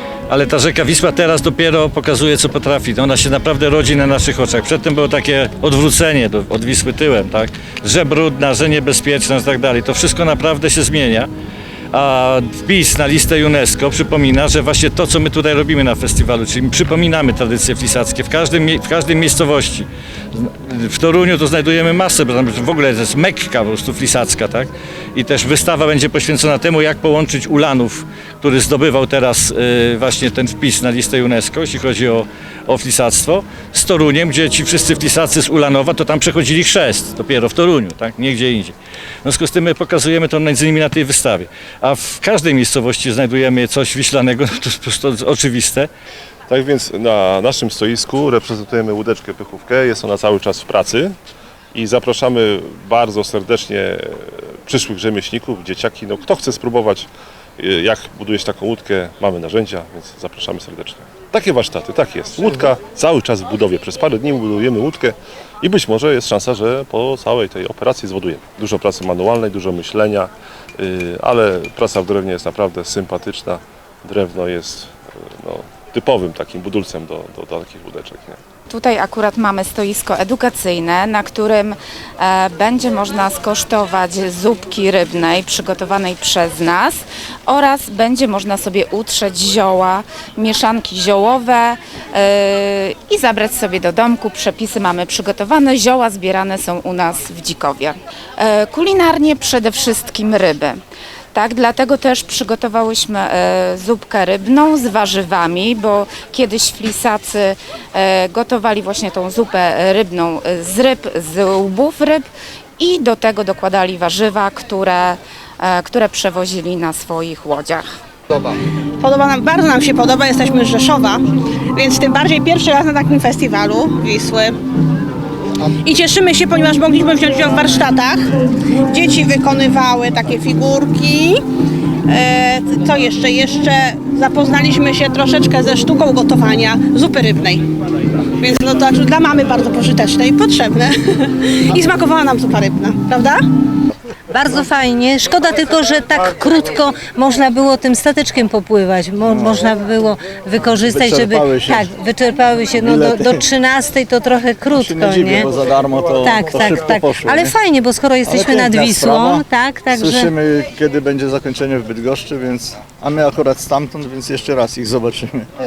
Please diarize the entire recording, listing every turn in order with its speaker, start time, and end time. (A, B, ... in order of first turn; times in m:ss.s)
0:00.3-0:11.3 A
0:11.9-0:45.9 A
0:46.5-0:51.1 B
0:51.7-1:18.4 B
1:18.7-1:40.8 C
1:41.3-1:52.3 C
1:52.8-1:57.8 C
1:58.5-2:04.6 D
2:05.8-2:08.3 D
2:08.9-2:11.4 D
2:12.1-2:17.7 D
2:18.4-2:23.5 D
2:24.3-2:35.5 E
2:29.3-2:29.6 F
2:30.9-2:31.9 F
2:32.8-2:33.4 F
2:34.7-2:37.5 F
2:36.2-2:40.3 E
2:38.2-2:45.5 F